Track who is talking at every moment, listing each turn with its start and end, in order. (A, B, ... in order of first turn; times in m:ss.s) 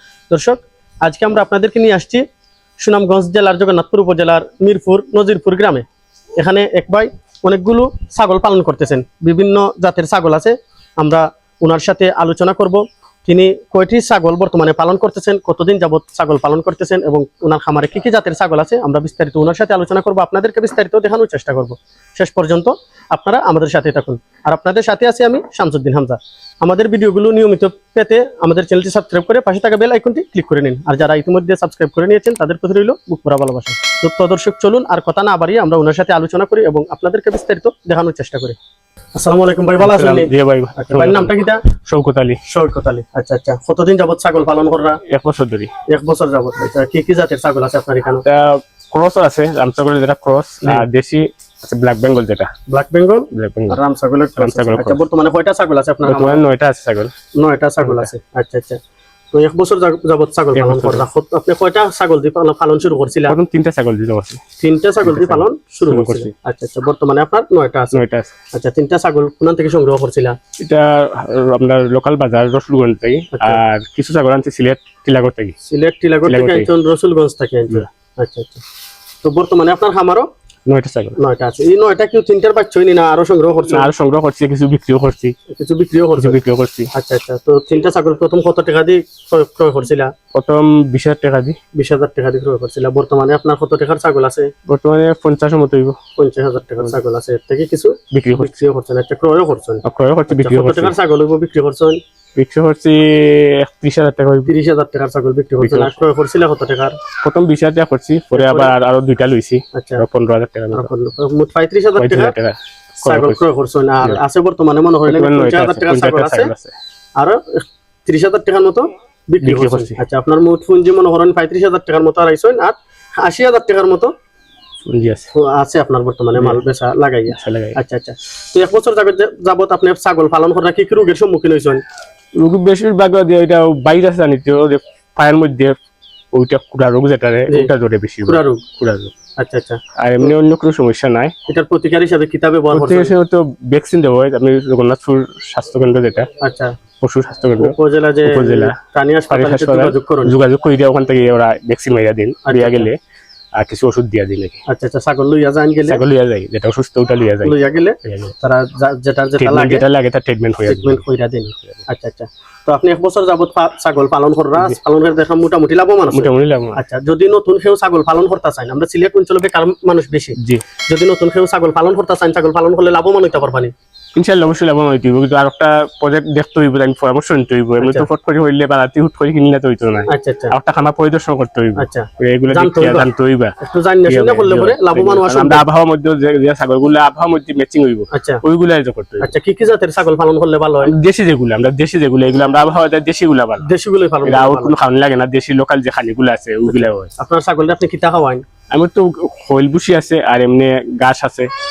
0:00.3-0:02.2 A
0:02.8-0:05.8 A
0:06.4-0:38.6 A
0:39.2-0:41.6 A
0:39.8-0:41.3 B
0:41.9-0:42.4 B
0:42.5-0:45.0 A
0:45.1-0:45.7 B
0:45.9-0:48.2 A
0:48.2-0:52.5 B
0:52.7-0:56.4 A
0:53.3-0:53.8 B
0:54.4-0:55.0 B
0:56.0-0:57.1 B
0:57.4-0:58.8 A
0:57.8-0:58.1 B
0:59.3-1:03.4 A
1:00.5-1:01.0 B
1:03.3-1:04.4 B
1:04.6-1:08.0 A
1:05.0-1:06.3 B
1:07.9-1:08.3 B
1:08.5-1:10.4 A
1:10.6-1:15.6 B
1:13.3-1:13.6 A
1:15.6-1:18.6 A
1:16.3-1:16.7 B
1:19.2-1:20.3 A
1:20.7-1:21.2 B
1:21.2-1:23.9 A
1:23.7-1:25.4 B
1:25.5-1:26.4 A
1:26.2-1:26.9 B
1:26.9-1:30.1 A
1:30.3-1:31.6 B
1:31.8-1:34.5 A
1:34.7-1:36.0 B
1:36.2-1:42.0 A
1:38.1-1:38.5 B
1:39.8-1:40.9 B
1:42.4-1:44.5 B
1:44.5-1:47.0 A
1:45.6-1:46.0 B
1:47.2-1:50.9 B
1:48.3-1:48.7 A
1:49.7-1:50.0 A
1:50.7-1:52.3 A
1:52.0-1:53.4 B
1:53.0-1:56.5 A
1:55.1-1:56.7 B
1:57.2-2:04.1 A
1:59.4-2:00.0 B
2:04.9-2:05.3 B
2:05.3-2:11.8 A
2:06.4-2:06.6 B
2:07.3-2:07.8 B
2:12.4-2:15.8 B
2:16.3-2:19.1 B
2:18.3-2:18.6 A
2:19.4-2:20.3 A
2:20.0-2:21.3 B
2:21.5-2:23.1 A
2:22.7-2:26.3 B
2:26.4-2:26.7 A
2:27.0-2:28.8 B
2:27.6-2:30.4 A
2:29.3-2:33.0 B
2:32.4-2:32.9 A
2:33.6-2:34.6 B
2:34.7-2:36.0 A
2:35.9-2:38.3 B
2:37.4-2:39.8 A
2:39.4-2:41.0 B
2:40.6-2:50.4 A
2:46.1-2:46.8 B
2:50.4-2:50.6 B
2:50.9-2:53.7 A
2:54.2-3:03.6 B
2:57.8-2:58.1 A
3:00.1-3:00.6 A
3:01.8-3:03.1 A
3:03.6-3:05.6 A
3:04.1-3:09.3 B
3:08.1-3:08.4 A
3:09.2-3:10.9 A
3:10.9-3:13.7 B
3:13.6-3:14.8 A
3:14.2-3:17.1 B
3:16.7-3:18.4 A
3:18.7-3:21.5 B